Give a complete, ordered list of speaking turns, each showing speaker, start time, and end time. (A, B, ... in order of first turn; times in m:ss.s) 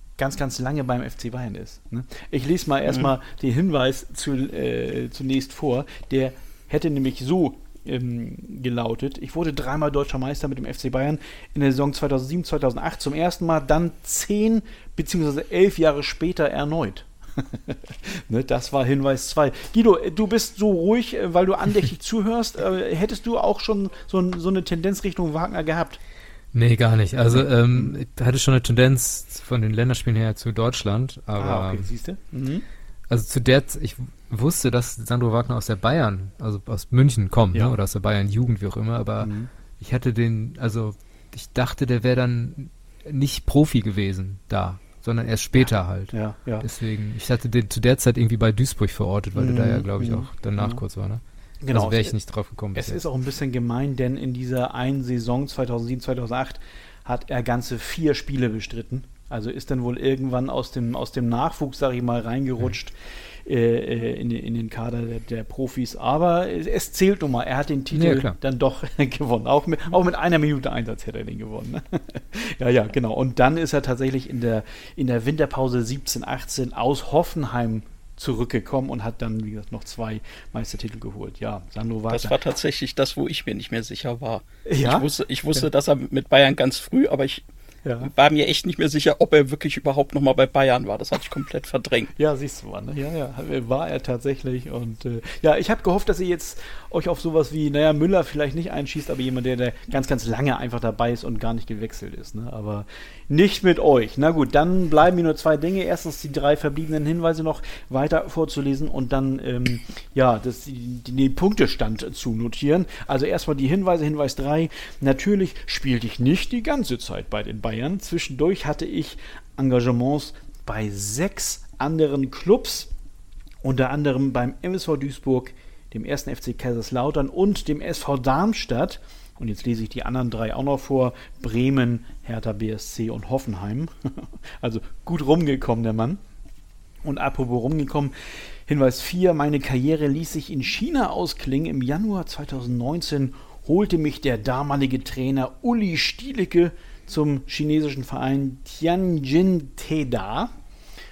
0:00.2-0:26.0 A
0:26.5-0:31.9 B
0:27.7-0:28.0 A
0:31.4-0:32.6 A
0:33.1-0:53.0 B
0:39.2-0:39.5 A
0:45.5-0:46.6 A
0:49.3-0:50.8 A
0:51.6-0:52.2 A
0:52.7-1:22.3 A
1:07.9-1:08.4 B
1:22.1-1:27.4 C
1:24.6-1:25.6 A
1:27.8-1:28.1 A
1:28.0-1:32.1 C
1:32.2-2:02.9 A
2:03.6-2:16.2 A
2:17.0-2:18.1 A
2:18.7-2:30.5 A